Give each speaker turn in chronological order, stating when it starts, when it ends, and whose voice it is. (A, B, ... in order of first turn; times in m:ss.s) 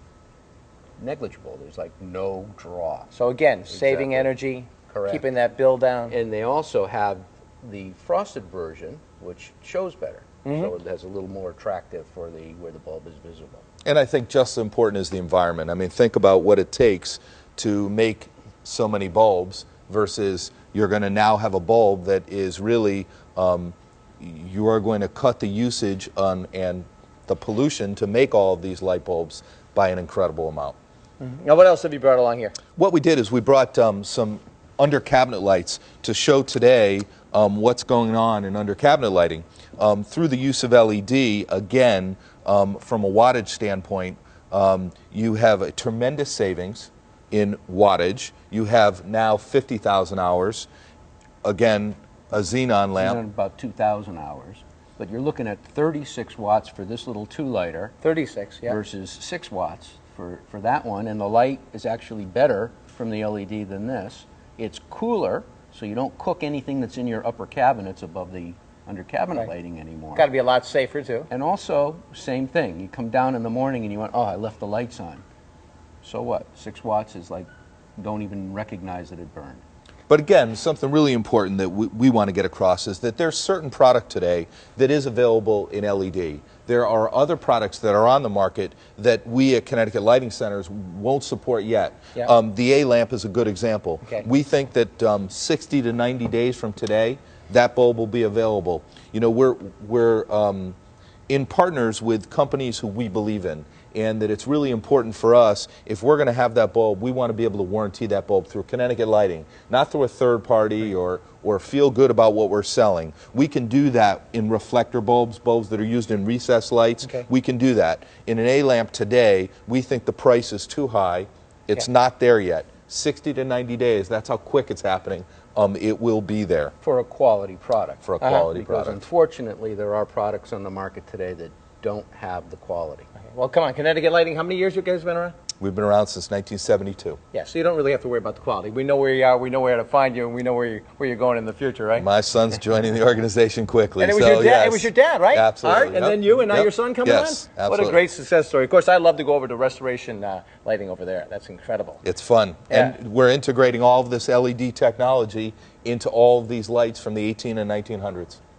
0:01.0-0:03.1 A
0:03.1-0:06.2 B
0:03.7-0:04.3 A
0:04.9-0:05.3 A
0:06.1-0:13.6 A
0:10.4-0:10.7 B
0:13.8-0:30.8 C
0:31.2-0:32.6 B
0:32.8-0:50.7 C
0:51.4-0:53.2 C
0:53.0-0:57.9 A
0:58.0-0:58.8 B
0:58.7-1:10.3 A
1:10.2-1:11.3 B
1:11.3-1:15.2 A
1:16.0-1:19.6 A
1:20.1-1:40.8 C
1:41.3-2:06.7 C
2:06.8-2:13.1 A
2:08.0-2:09.0 C
2:08.2-2:08.5 B
2:13.2-2:15.4 B
2:15.6-2:17.2 C
2:17.3-2:22.1 B
2:21.9-2:28.0 C
2:24.0-2:32.0 B
2:32.0-2:38.4 C
2:32.7-2:33.0 B